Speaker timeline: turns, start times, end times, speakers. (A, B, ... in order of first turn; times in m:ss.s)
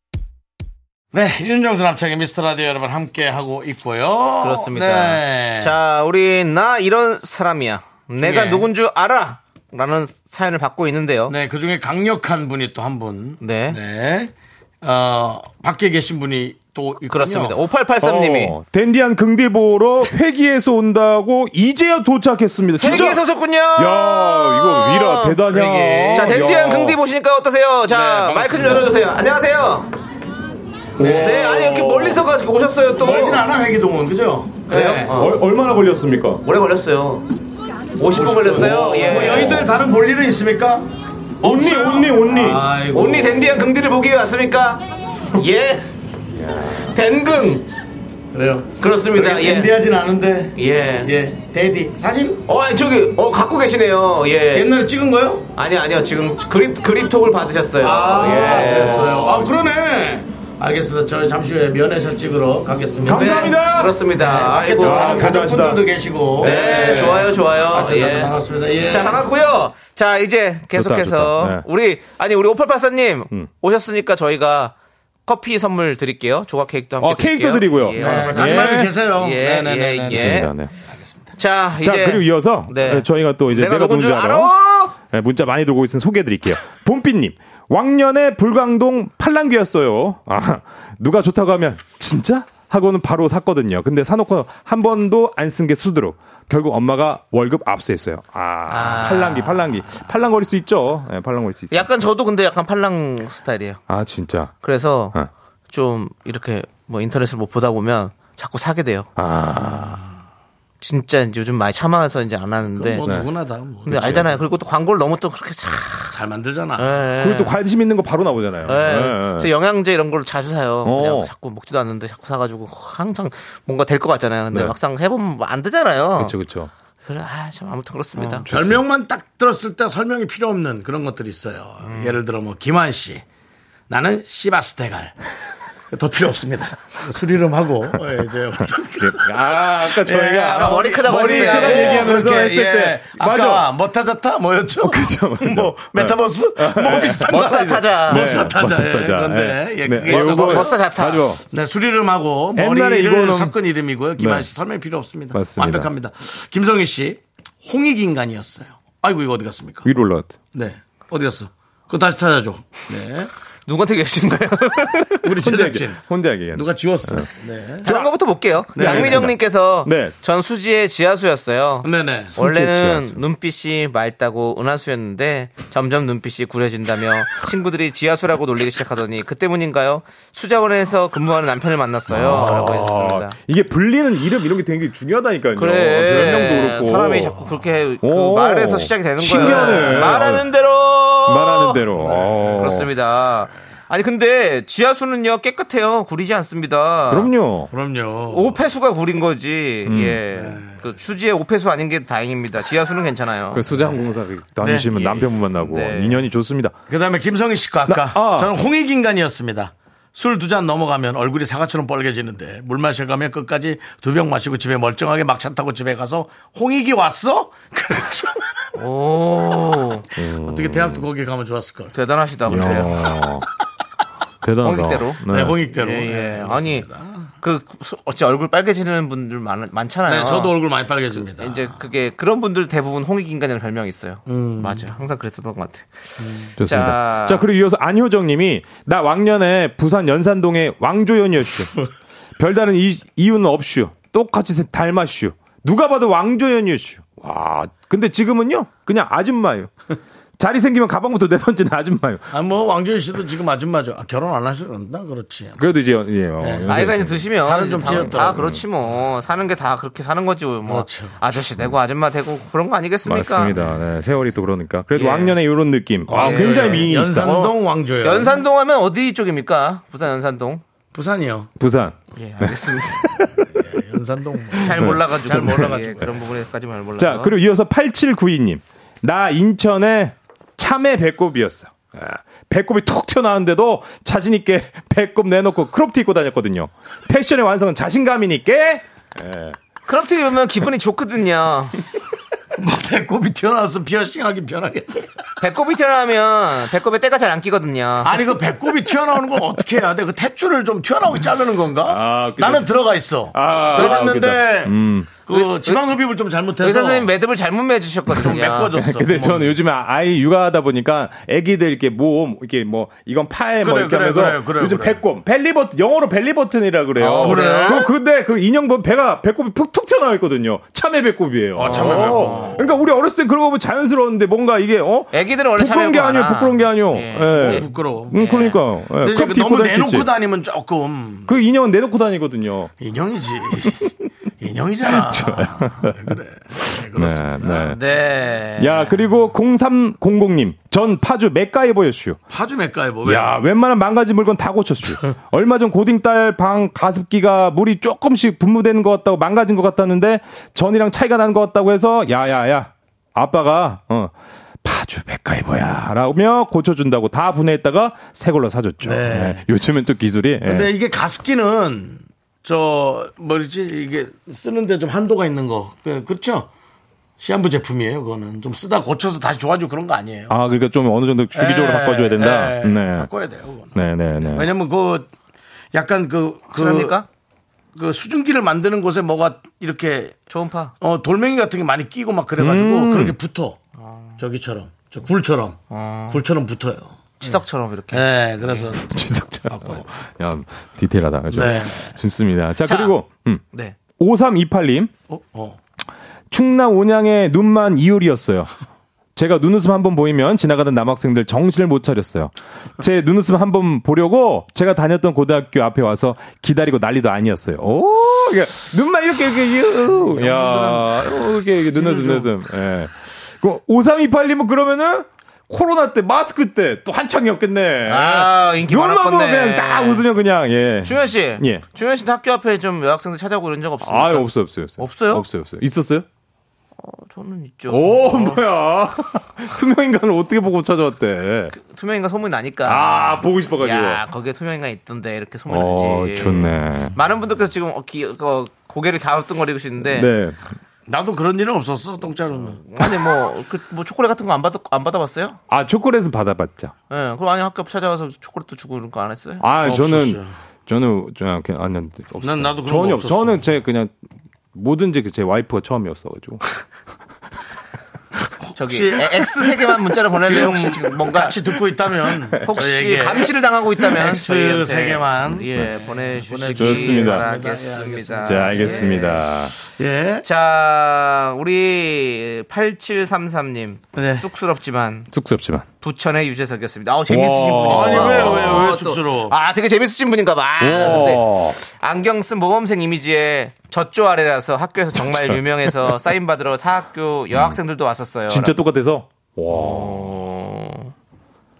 0:01.1-0:05.7 A
0:04.4-0:11.4 B
0:08.2-0:08.7 A
0:11.3-0:17.6 A
0:13.4-0:13.8 B
0:17.1-0:18.6 B
0:18.0-0:23.2 C
0:22.8-0:25.4 B
0:23.8-0:27.0 C
0:25.5-0:26.4 A
0:26.1-0:29.9 B
0:27.9-0:28.9 A
0:31.0-0:32.2 A
0:31.0-0:33.4 B
0:33.0-0:35.1 A
0:34.7-0:35.4 B
0:35.1-0:36.4 C
0:36.4-0:37.2 B
0:38.0-0:39.6 B
0:38.1-0:40.9 A
0:39.2-0:39.7 C
0:41.4-0:42.6 C
0:41.4-0:43.6 A
0:42.9-0:45.9 B
0:46.3-0:46.9 C
0:46.6-0:47.7 B
0:48.3-0:52.4 A
0:48.8-0:49.7 B
0:50.6-0:51.1 B
0:52.5-0:54.7 B
0:54.5-0:55.5 A
0:55.6-0:59.5 B
0:57.8-1:03.6 A
1:03.0-1:04.0 C
1:03.1-1:05.3 B
1:04.1-1:09.2 A
1:04.8-1:05.8 C
1:06.4-1:08.4 B
1:08.9-1:14.7 B
1:10.7-1:11.6 C
1:15.2-1:20.5 B
1:17.0-1:19.0 C
1:18.0-1:21.0 A
1:20.1-1:20.7 C
1:21.4-1:25.0 B
1:21.8-1:41.9 C
1:38.7-1:39.7 B
1:41.7-1:43.8 B
1:43.9-1:44.5 C
1:44.6-1:45.2 B
1:45.7-1:49.1 B
1:49.2-1:50.0 C
1:50.8-1:53.0 B
1:52.7-1:54.4 A
1:53.0-1:53.3 C
1:53.8-1:54.4 C
1:53.9-1:56.2 B
1:56.1-1:57.0 A
1:56.8-1:57.6 B
1:57.2-1:59.5 C
1:58.6-2:06.3 B
2:00.8-2:01.3 C
2:06.2-2:06.7 C
2:07.0-2:08.5 B
2:08.2-2:13.2 A
2:08.5-2:08.8 C
2:11.8-2:12.1 B
2:13.9-2:15.2 A
2:15.9-2:30.8 A
2:19.0-2:23.7 C
2:20.5-2:22.2 B
2:24.8-2:31.4 C
2:27.1-2:28.5 B
2:30.0-2:31.2 B
2:31.4-2:39.9 A
2:32.6-2:33.6 C
2:34.2-2:34.5 C
2:35.3-2:35.9 C
2:39.8-2:40.4 C
2:40.5-2:43.3 A
2:43.7-2:45.2 B
2:45.2-2:47.3 C
2:45.2-2:47.9 A
2:47.8-2:48.1 C
2:47.8-3:03.4 B
2:48.7-2:50.1 C
2:48.8-2:49.3 A
2:51.8-2:52.4 A
2:52.3-2:53.2 C
3:02.1-3:07.5 C
3:05.6-3:11.8 B
3:08.0-3:10.5 C
3:09.3-3:10.2 A
3:11.3-3:12.9 C
3:11.9-3:12.6 A
3:12.5-3:17.3 B
3:17.1-3:17.7 C
3:17.7-3:18.6 A
3:18.3-3:23.7 B
3:19.8-3:20.2 C
3:20.3-3:20.6 A
3:23.5-3:26.7 C
3:24.6-3:24.9 A
3:24.9-3:26.2 B
3:26.9-3:38.7 A
3:27.9-3:28.5 C
3:38.8-3:40.1 B
3:40.2-3:41.0 C
3:40.2-3:41.9 A
3:41.9-3:43.1 B
3:42.5-3:43.5 C
3:42.5-3:43.0 A
3:44.4-3:45.6 C
3:44.6-3:46.9 B
3:45.2-3:47.3 A
3:47.4-3:50.6 B
3:50.0-3:51.8 A
3:51.4-3:57.4 B
3:54.3-3:55.0 A
3:56.2-3:56.5 A
3:56.6-4:01.8 C
4:02.4-4:09.7 C
4:10.4-4:12.3 C
4:12.3-4:15.7 A
4:15.6-4:18.6 C
4:16.4-4:16.7 A
4:16.7-4:23.6 B
4:17.3-4:18.4 A
4:20.6-4:21.2 A
4:23.0-4:27.5 C
4:24.9-4:25.4 B
4:26.1-4:28.4 A
4:26.1-4:30.6 B
4:30.9-4:31.5 A
4:31.6-4:33.5 C
4:32.1-4:33.2 B
4:33.5-4:36.1 A
4:34.5-4:37.3 B
4:34.8-4:35.7 C
4:37.0-4:49.6 C
4:49.8-4:51.8 B
4:52.5-4:55.2 A
4:55.4-4:58.2 B
4:58.0-5:07.1 A
5:01.8-5:02.7 C
5:03.3-5:05.2 C
5:03.7-5:04.1 B
5:05.3-5:05.8 B
5:06.6-5:08.8 B
5:08.1-5:09.6 A
5:08.7-5:30.1 C
5:13.6-5:15.0 A
5:17.0-5:17.9 B
5:17.2-5:17.9 A
5:21.6-5:22.8 A
5:21.6-5:22.6 B
5:25.1-5:28.6 B
5:27.4-5:28.1 A
5:29.0-5:31.3 A
5:31.3-5:32.7 C
5:32.8-5:37.6 A
5:33.6-5:33.9 C
5:34.9-5:36.1 C
5:36.6-5:37.8 C
5:37.5-5:39.0 B
5:38.6-5:42.2 C
5:42.3-5:43.4 A
5:43.0-5:54.1 C
5:54.6-6:00.7 C
5:58.8-5:59.4 A
6:00.4-6:06.5 A
6:07.2-6:10.4 A
6:10.3-6:13.1 C
6:11.3-6:15.1 A
6:13.7-6:14.5 C
6:15.7-6:17.0 A
6:16.5-6:17.0 B
6:17.7-6:20.2 A
6:20.3-6:20.7 B
6:20.8-6:23.6 A
6:22.4-6:23.2 C
6:24.2-6:25.6 A
6:25.7-6:26.2 B
6:26.1-6:29.0 A
6:27.2-6:28.7 B
6:28.8-6:34.9 C
6:29.5-6:29.8 A
6:31.3-6:31.9 A
6:31.4-6:31.7 B
6:32.6-6:33.0 B
6:33.5-6:33.8 B
6:35.1-6:35.6 A
6:36.3-6:38.5 C
6:39.1-7:01.6 C
6:50.1-6:50.9 A
6:51.7-6:52.3 A
6:57.9-7:00.0 B
7:00.8-7:05.2 B
7:03.8-7:06.0 C
7:06.8-7:08.4 B
7:07.7-7:11.5 C
7:11.5-7:20.1 B
7:12.6-7:14.0 C
7:15.5-7:16.9 C
7:19.8-7:20.4 C
7:20.9-7:22.6 A
7:22.6-7:25.4 B
7:25.5-7:26.7 C
7:26.9-7:29.4 B
7:29.4-7:33.9 C
7:29.6-7:30.3 A
7:32.2-7:33.5 A
7:34.5-7:36.6 C
7:38.4-7:39.2 A
7:38.5-7:41.5 B
7:40.2-7:49.2 A
7:42.4-7:49.2 B
7:46.6-7:47.2 C
7:48.2-7:49.5 C
7:49.8-7:50.2 A
7:50.2-7:55.1 B
7:53.9-7:54.2 A
7:55.1-7:55.6 C
7:55.8-8:08.6 B
7:57.1-7:58.6 C
7:57.6-7:59.3 A
8:00.6-8:01.6 C
8:05.0-8:05.4 C
8:07.3-8:07.6 C
8:08.3-8:10.2 C
8:09.5-8:10.9 B